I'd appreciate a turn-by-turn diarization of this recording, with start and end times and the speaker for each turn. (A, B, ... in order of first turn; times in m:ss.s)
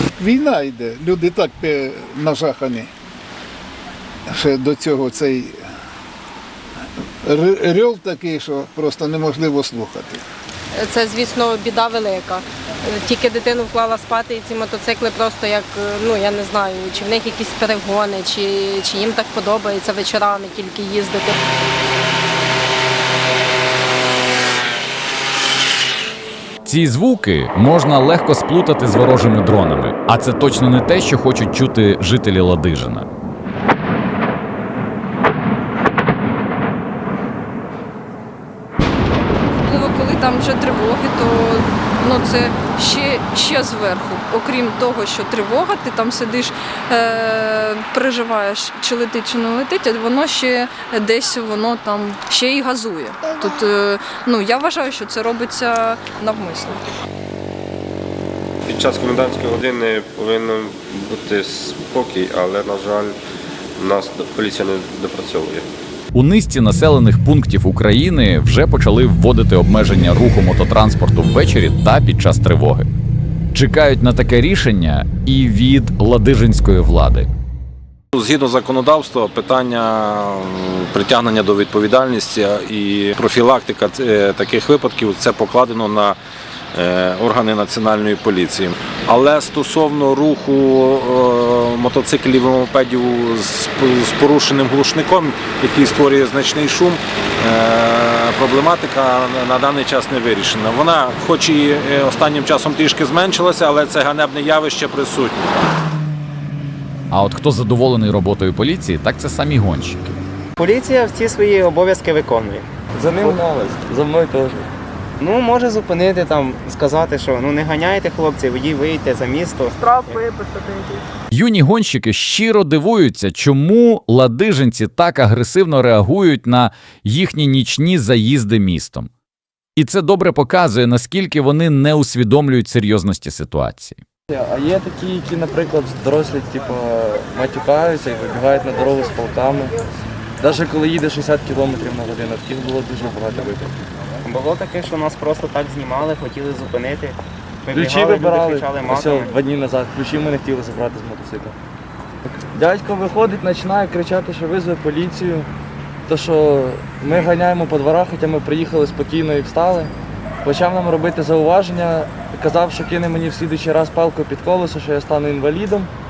0:00.2-0:02.9 A
0:04.3-0:05.6 A
0:07.2-0:10.2 A
0:10.8-0:21.4 B
0:26.6-0:33.1 C
0:39.6-0:56.8 D
0:58.7-1:03.2 E
1:03.8-1:05.7 E
1:06.1-1:12.9 C
1:13.5-1:17.3 C
1:18.1-1:26.2 F
1:26.8-1:45.4 F
1:47.1-1:50.0 C
1:50.6-1:52.7 G
1:52.9-1:54.6 H
1:55.2-2:00.2 G
1:59.9-2:01.0 B
2:01.3-2:09.1 C
2:09.8-2:14.0 C
2:14.3-2:19.8 H
2:20.4-2:23.8 H
2:24.2-2:29.3 G
2:27.7-2:31.6 H
2:32.5-2:35.5 H
2:36.1-2:39.9 H
2:40.4-2:45.9 H